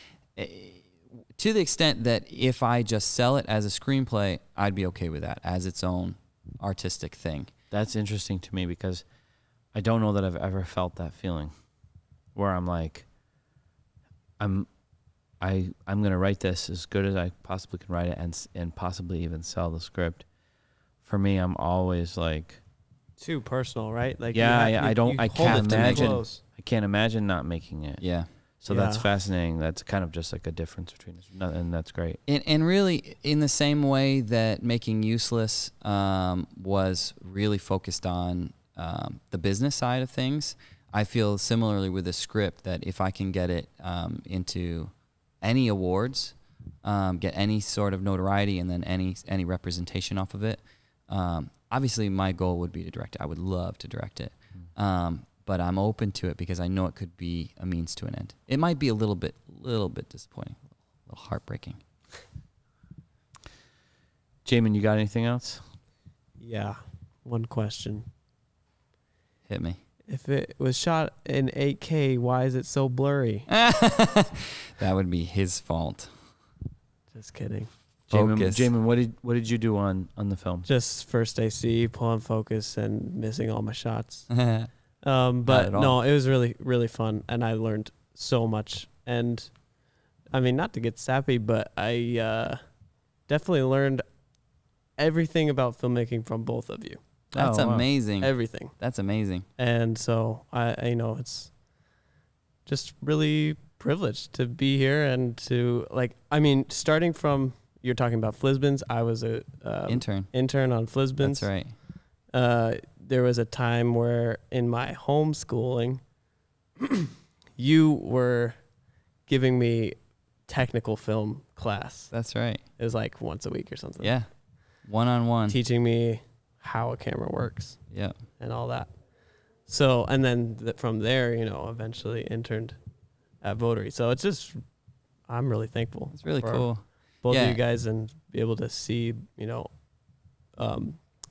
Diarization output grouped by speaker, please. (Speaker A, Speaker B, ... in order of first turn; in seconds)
Speaker A: 0.4-7.5, 25.4-26.2, 28.0-28.3, 32.3-61.8, 69.5-69.8, 73.5-76.1, 78.1-78.7, 84.3-84.7, 85.4-86.0, 97.3-99.5, 109.9-110.3, 111.2-111.8, 122.1-122.6, 124.0-124.3, 124.9-125.6, 136.2-137.6
Speaker B: 7.7-9.0, 9.7-11.5, 12.3-13.1, 14.4-14.7, 15.4-20.3, 21.0-22.6, 24.3-28.0, 28.6-32.2, 64.5-65.6, 78.1-80.7, 97.3-97.9
Speaker C: 23.2-26.4, 28.7-29.1, 66.4-68.1, 70.1-73.5, 77.1-77.7, 80.7-84.3, 85.0-89.5, 90.3-92.6, 93.3-94.0, 95.0-97.0, 98.2-98.8, 99.6-101.5, 102.7-111.5, 112.3-116.0, 116.8-118.6, 119.3-122.1, 122.8-124.1, 125.5-127.8, 128.4-128.9, 129.7-132.8, 133.4-134.6, 135.3-136.7, 137.2-139.7, 140.6-141.0